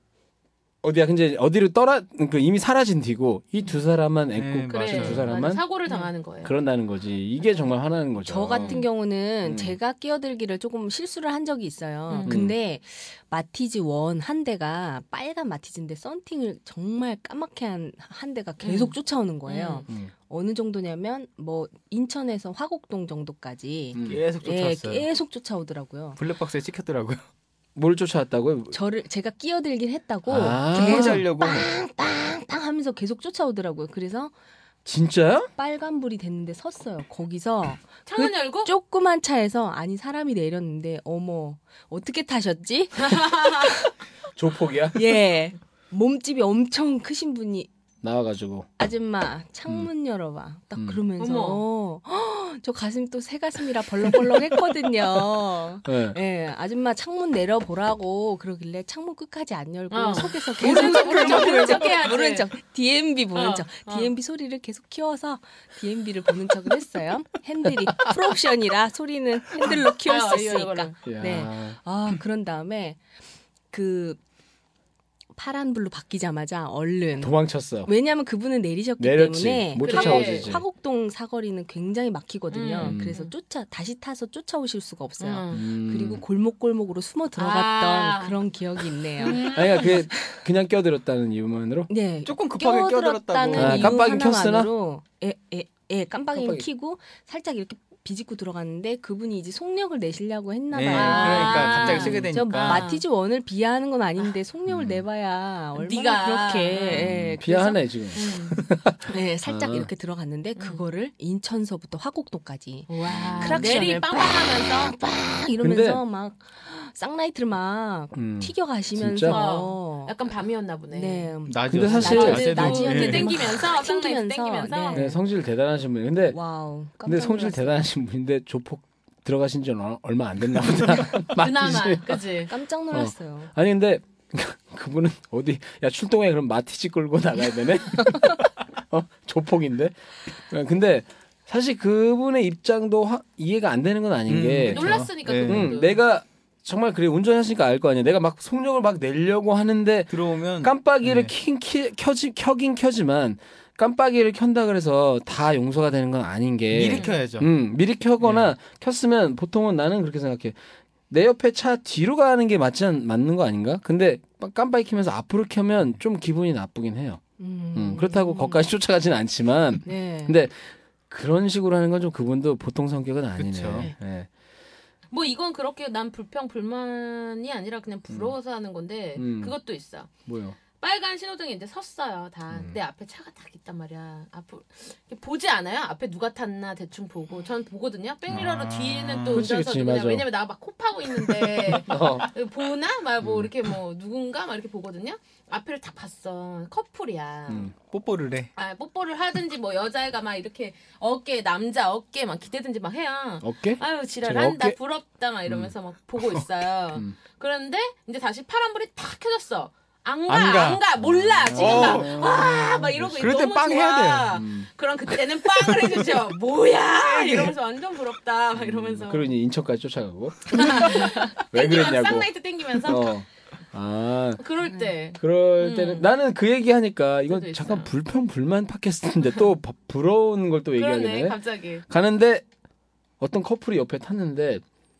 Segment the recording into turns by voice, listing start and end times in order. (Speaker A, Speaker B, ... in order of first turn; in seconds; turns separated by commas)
Speaker A: 0.8-5.6, Speaker B: 4.3-5.3, Speaker C: 4.7-6.5, Speaker A: 6.4-8.8, Speaker D: 8.2-26.2, Speaker C: 8.5-8.8, Speaker A: 9.4-9.8, Speaker C: 12.1-12.4, Speaker A: 12.2-12.5, Speaker C: 18.6-18.9, Speaker C: 19.4-19.9, Speaker A: 23.9-24.2, Speaker B: 24.0-25.1, Speaker B: 26.2-27.2, Speaker A: 27.8-28.8, Speaker D: 28.7-34.3, Speaker A: 30.3-31.2, Speaker B: 30.7-31.7, Speaker A: 34.8-35.5, Speaker D: 35.5-43.9, Speaker C: 38.1-38.7, Speaker C: 43.0-43.7, Speaker A: 44.3-45.1, Speaker D: 44.9-47.7, Speaker A: 48.0-48.7, Speaker D: 48.8-73.0, Speaker A: 50.7-51.0, Speaker C: 51.2-51.6, Speaker A: 55.8-56.2, Speaker C: 59.9-62.5, Speaker A: 60.6-61.4, Speaker B: 61.1-61.6, Speaker C: 63.3-64.1, Speaker C: 69.8-71.0, Speaker A: 71.0-71.8, Speaker D: 73.7-74.2, Speaker D: 75.3-90.4, Speaker A: 77.2-77.9, Speaker A: 79.0-80.6, Speaker C: 79.8-80.5, Speaker C: 82.5-83.3, Speaker A: 82.8-83.1, Speaker C: 85.2-85.6, Speaker A: 85.5-86.2, Speaker C: 87.4-88.4, Speaker C: 89.2-90.0, Speaker A: 89.4-91.9, Speaker D: 91.9-107.8, Speaker B: 92.2-94.0, Speaker A: 93.5-94.7, Speaker A: 96.3-96.7, Speaker B: 100.7-102.9, Speaker C: 100.9-103.0, Speaker A: 104.7-105.0, Speaker C: 105.7-107.1, Speaker A: 106.9-109.9, Speaker C: 108.1-108.6, Speaker D: 109.0-120.1, Speaker C: 110.5-110.8, Speaker C: 112.9-115.0, Speaker A: 113.0-113.7, Speaker A: 115.6-116.0, Speaker A: 118.1-119.4, Speaker C: 119.2-121.3, Speaker D: 120.9-125.2, Speaker B: 121.5-123.4, Speaker A: 121.7-122.5, Speaker C: 122.0-125.1, Speaker A: 124.9-126.4, Speaker D: 126.3-127.8, Speaker A: 127.0-132.2, Speaker C: 131.2-132.5, Speaker D: 132.4-133.5, Speaker A: 132.9-160.6, Speaker B: 144.3-145.7, Speaker C: 144.7-146.0, Speaker B: 150.1-151.3, Speaker B: 156.7-157.5, Speaker C: 156.9-157.2, Speaker B: 158.2-158.5, Speaker A: 161.1-167.2, Speaker D: 167.4-168.7, Speaker A: 167.7-174.3, Speaker D: 169.8-170.3, Speaker B: 173.4-173.9, Speaker C: 175.1-180.1, Speaker A: 178.1-178.3, Speaker A: 179.2-179.5, Speaker A: 180.2-180.6, Speaker C: 180.8-197.7, Speaker A: 182.5-182.8, Speaker B: 188.3-189.4, Speaker A: 189.3-190.2, Speaker A: 191.7-192.3, Speaker A: 193.2-193.5, Speaker B: 197.8-198.5, Speaker C: 198.6-219.3, Speaker A: 203.4-204.8, Speaker B: 210.3-210.8, Speaker A: 211.0-213.3, Speaker B: 211.5-212.4, Speaker B: 213.2-214.4, Speaker A: 214.3-214.7, Speaker B: 217.2-217.5, Speaker A: 218.6-222.3, Speaker C: 220.5-223.1, Speaker A: 222.8-224.4, Speaker C: 224.4-226.1, Speaker A: 225.2-231.4, Speaker C: 227.3-227.9, Speaker C: 230.8-231.8, Speaker A: 231.9-232.4, Speaker A: 233.2-234.6